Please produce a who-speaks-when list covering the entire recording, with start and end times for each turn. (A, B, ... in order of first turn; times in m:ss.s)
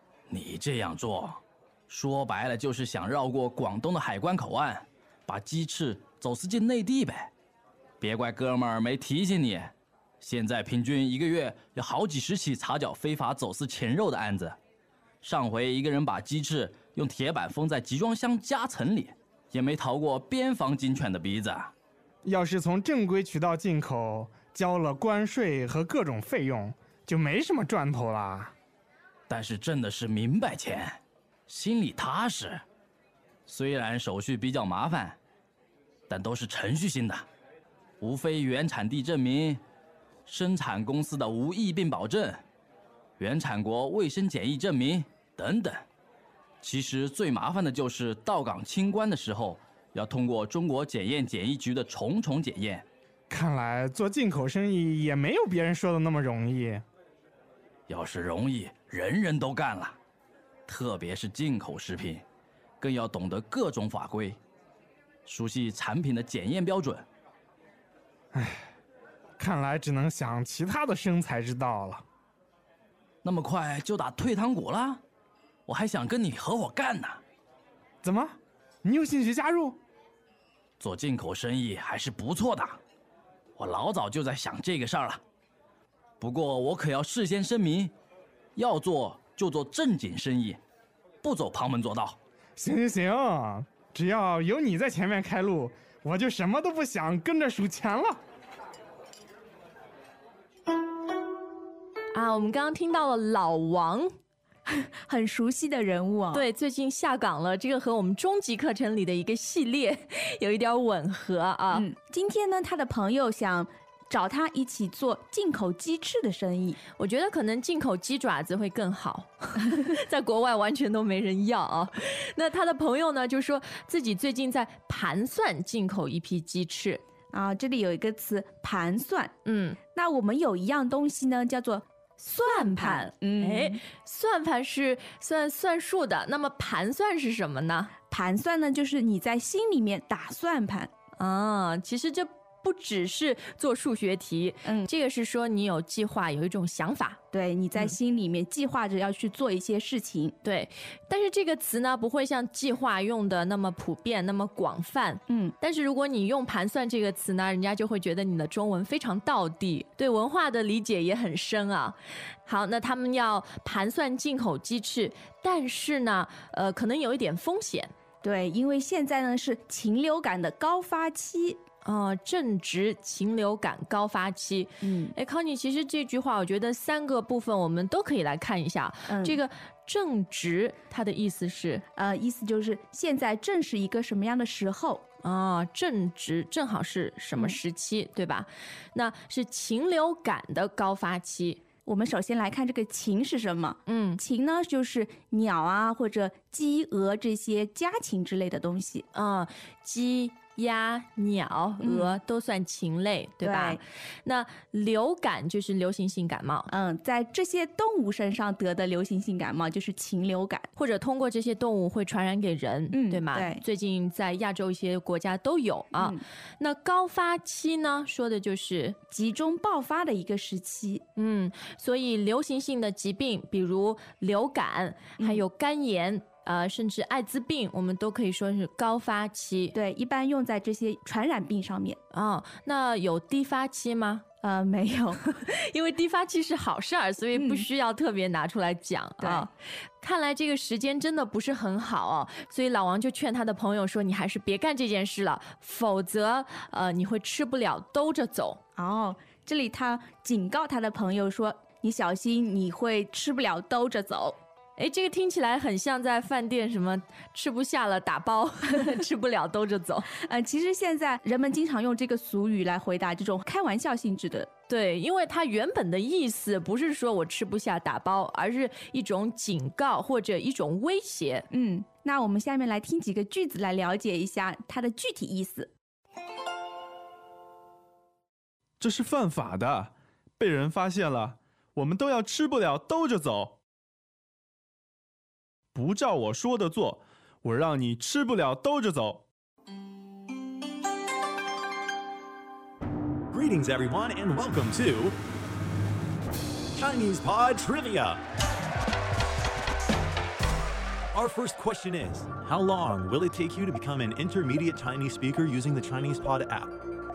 0:00.3-0:07.3 A
0:08.0-0:14.6 A
0:15.2-0:21.7 A
0:22.2-0:28.5 B
0:29.3-0:32.6 A
0:33.5-0:35.2 A
0:36.1-0:37.2 A
0:38.0-0:39.6 A
0:40.2-0:42.4 A
0:43.2-0:45.8 A
0:46.6-0:52.8 A
0:53.3-0:56.8 B
0:57.9-1:00.0 A
1:00.7-1:02.2 A
1:02.8-1:04.4 A
1:05.2-1:07.1 A
1:08.3-1:08.7 B
1:09.4-1:12.0 B
1:13.2-1:15.0 A
1:15.7-1:17.2 A
1:18.0-1:19.8 B
1:20.8-1:22.8 A
1:23.6-1:25.2 A
1:26.2-1:27.9 A
1:28.6-1:30.6 A
1:31.2-1:32.2 A
1:32.6-1:38.2 B
1:42.1-1:44.1 C
1:44.7-1:46.4 D
1:46.3-1:51.9 C
1:51.7-1:56.8 D
1:57.0-2:07.0 C
2:07.3-2:09.3 D
2:09.4-2:09.8 C
2:09.9-2:13.8 D
2:12.4-2:17.9 C
2:18.1-2:20.9 D
2:21.2-2:27.2 C
2:24.6-2:24.9 D
2:27.3-2:30.4 D
2:30.4-2:47.9 C
2:35.3-2:35.6 D
2:48.2-2:51.6 D
2:51.8-3:01.8 C
2:54.8-2:55.1 D
2:59.1-2:59.4 D
3:02.0-3:05.0 D
3:05.2-3:11.6 C
3:11.8-3:19.1 D
3:13.9-3:14.2 C
3:19.1-3:26.7 C
3:21.8-3:22.2 D
3:23.4-3:23.8 D
3:26.7-3:30.7 D
3:30.8-3:39.0 C
3:32.9-3:33.6 D
3:35.9-3:36.2 D
3:39.1-3:41.0 D
3:41.2-3:49.8 C
3:45.2-3:45.4 D
3:49.8-3:52.0 D
3:52.1-3:54.2 C
3:54.4-3:55.2 D
3:55.4-3:59.5 C
3:57.4-3:57.7 D
3:59.2-3:59.5 D
4:00.0-4:08.6 C
4:08.8-4:14.4 D
4:14.8-4:20.1 C
4:20.2-4:24.5 D
4:24.7-4:31.5 C
4:31.5-4:35.7 D
4:38.8-4:43.6 E
4:45.7-4:49.3 E
4:53.3-4:55.2 F
4:56.8-4:58.2 F
5:01.1-5:06.7 F